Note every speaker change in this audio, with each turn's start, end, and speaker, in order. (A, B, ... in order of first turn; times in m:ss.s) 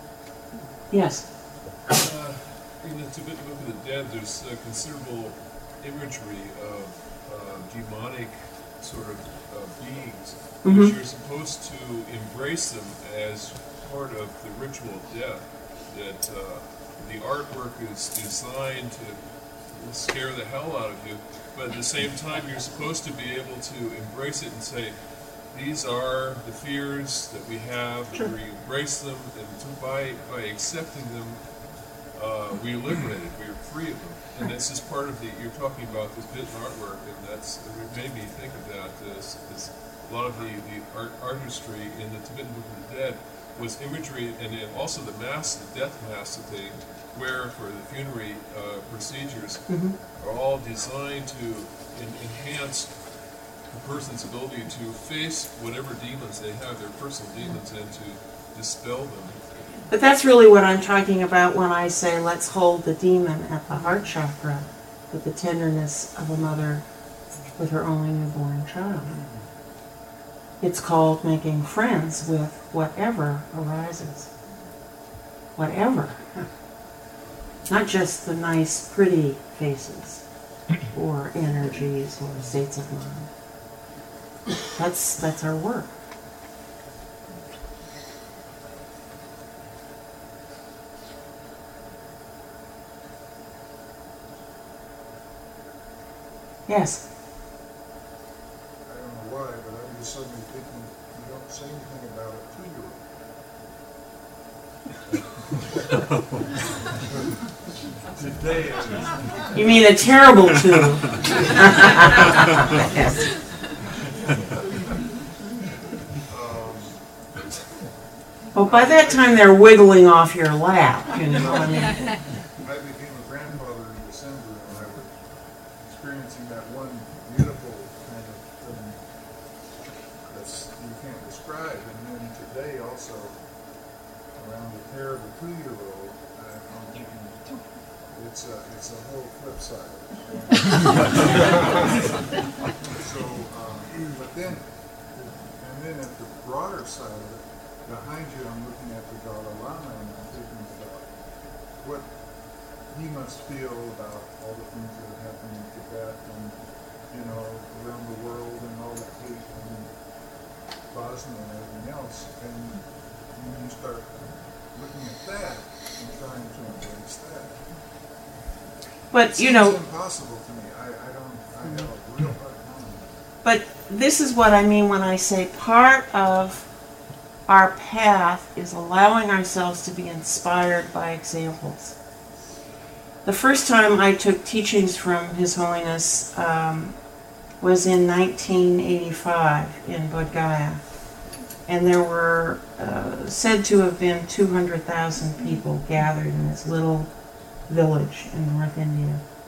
0:00.9-0:01.2 A
0:01.9-0:25.0 B
0:10.6-0:10.9 A
0:25.5-0:59.4 B
0:49.7-0:50.0 A
0:59.9-1:06.8 A
1:07.6-1:09.1 A
1:10.6-1:14.3 A
1:15.6-1:16.4 A
1:17.7-1:20.2 A
1:20.9-1:23.3 A
1:24.7-1:25.9 A
1:36.7-1:37.0 A
1:38.8-1:43.0 C
1:48.1-1:49.5 C
1:49.5-1:53.2 A
1:56.3-1:57.0 C
1:58.5-2:02.0 A
1:58.6-1:59.4 C
2:02.6-2:05.1 C
2:05.8-2:09.0 C
2:10.2-2:13.4 C
2:14.3-2:17.4 C
2:18.1-2:22.3 C
2:23.0-2:31.1 C
2:31.8-2:32.1 C
2:32.9-2:36.6 C
2:37.1-2:39.9 C
2:40.9-2:44.2 C
2:44.7-2:47.6 C
2:49.1-2:49.8 A
2:49.3-2:53.1 C
2:53.4-2:56.7 A
2:57.5-3:02.0 A
3:03.2-3:06.9 A
3:07.6-3:10.8 A
3:11.7-3:17.1 A
3:17.7-3:19.2 A